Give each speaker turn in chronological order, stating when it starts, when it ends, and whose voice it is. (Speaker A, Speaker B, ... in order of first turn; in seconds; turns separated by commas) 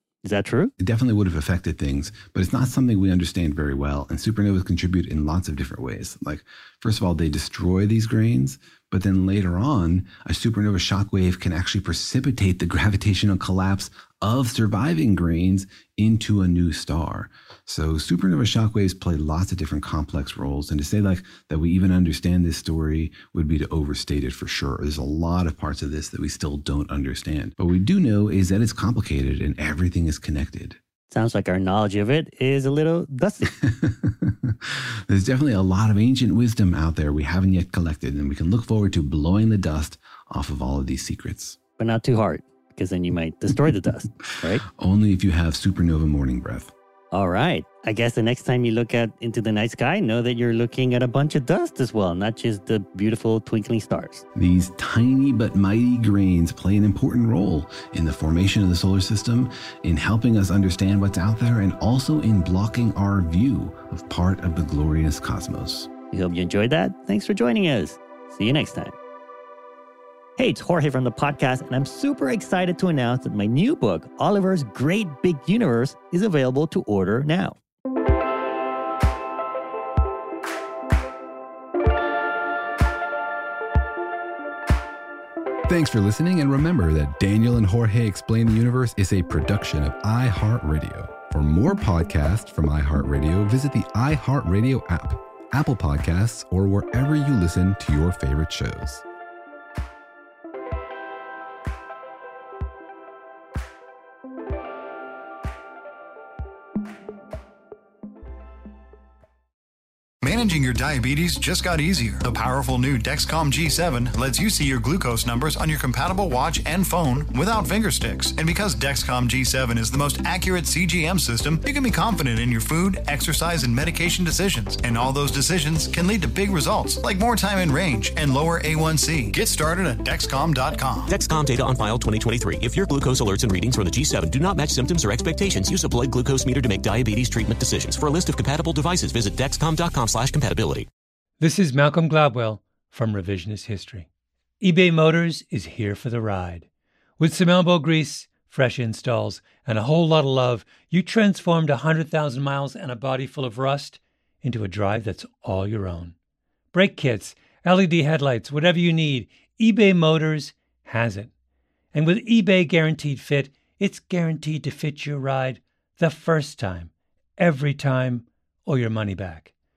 Speaker A: 0.2-0.7, Speaker B: 0.8-30.8, Speaker A: 31.1-33.5, Speaker B: 33.6-41.6, Speaker A: 41.8-44.6, Speaker B: 44.7-46.7, Speaker A: 47.1-54.2, Speaker B: 54.3-65.9, Speaker A: 66.1-68.9, Speaker A: 70.4-77.5, Speaker B: 85.7-99.0, Speaker C: 110.2-131.1, Speaker D: 131.1-140.9, Speaker E: 141.4-144.1, Speaker E: 144.6-146.7, Speaker E: 147.2-156.1, Speaker E: 156.7-161.3, Speaker E: 161.9-169.5